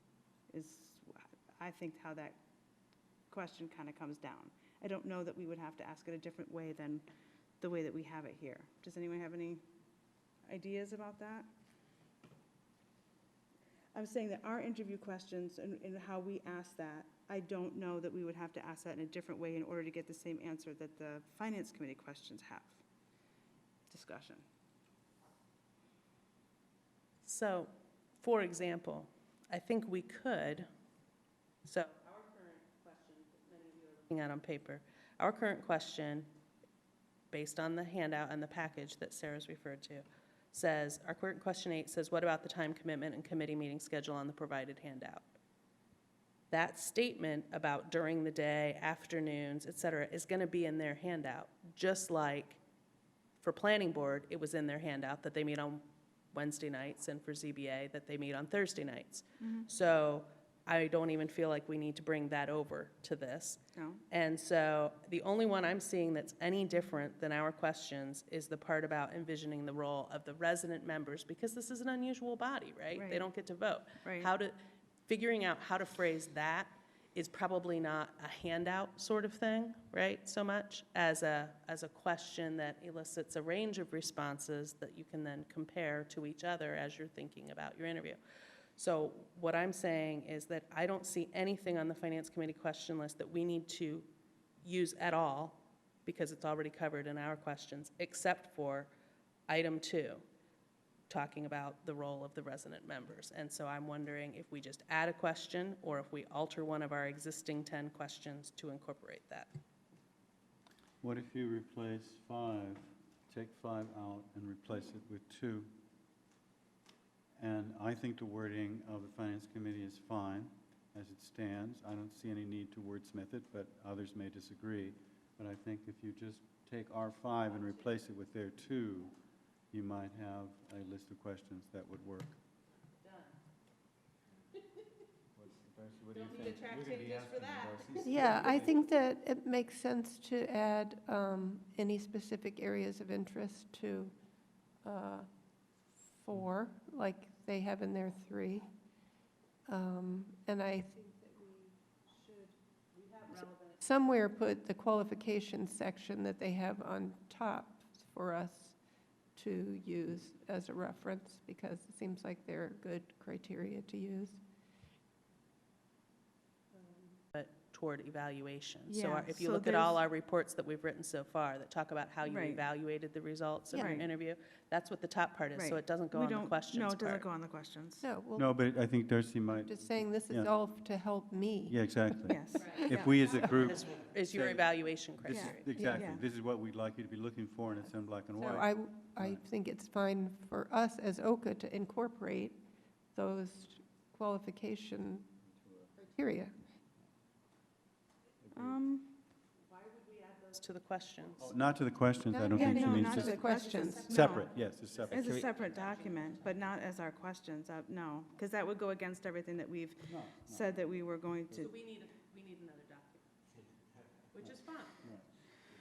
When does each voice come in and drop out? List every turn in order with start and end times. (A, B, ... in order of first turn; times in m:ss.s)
0:00.5-0:02.4 A
0:03.3-0:07.0 A
0:07.6-0:09.6 A
0:10.5-0:11.5 A
0:13.9-0:22.8 A
0:23.9-0:24.4 A
0:27.2-0:30.7 B
0:31.6-0:36.3 B
0:37.3-0:45.3 B
0:46.5-0:52.6 B
0:53.4-1:14.6 B
0:59.4-0:59.7 A
1:03.8-1:04.0 A
1:13.0-1:13.3 A
1:14.0-1:14.3 A
1:15.1-1:28.2 B
1:28.8-1:34.1 B
1:34.6-1:38.9 B
1:39.5-1:40.2 B
1:41.1-1:49.5 B
1:51.0-1:55.7 C
1:57.4-2:09.2 C
2:09.7-2:12.4 C
2:13.0-2:13.4 B
2:15.4-2:18.8 C
2:16.1-2:18.6 B
2:18.0-2:24.1 D
2:24.8-2:25.3 D
2:26.2-2:28.7 D
2:29.7-2:31.7 D
2:32.9-2:33.8 B
2:33.8-2:38.8 D
2:39.4-2:44.4 D
2:47.3-2:57.3 B
2:48.9-2:50.0 A
2:52.3-2:52.6 A
2:53.7-2:54.0 D
2:53.7-2:54.1 A
2:55.5-2:58.0 A
2:58.0-2:58.5 D
2:58.4-3:00.5 C
2:59.5-3:03.0 D
3:01.7-3:09.4 C
3:02.3-3:03.3 A
3:03.4-3:05.7 B
3:05.3-3:06.2 A
3:05.8-3:06.0 D
3:08.4-3:12.6 D
3:13.1-3:15.4 D
3:16.0-3:16.5 D
3:18.5-3:18.8 C
3:18.5-3:20.6 A
3:20.5-3:21.5 B
3:21.4-3:23.4 C
3:22.3-3:24.2 D
3:22.5-3:24.5 A
3:22.6-3:26.7 B
3:24.1-3:25.3 C
3:25.1-3:31.7 A
3:30.1-3:30.8 C
3:31.6-3:33.3 B
3:34.3-3:35.1 B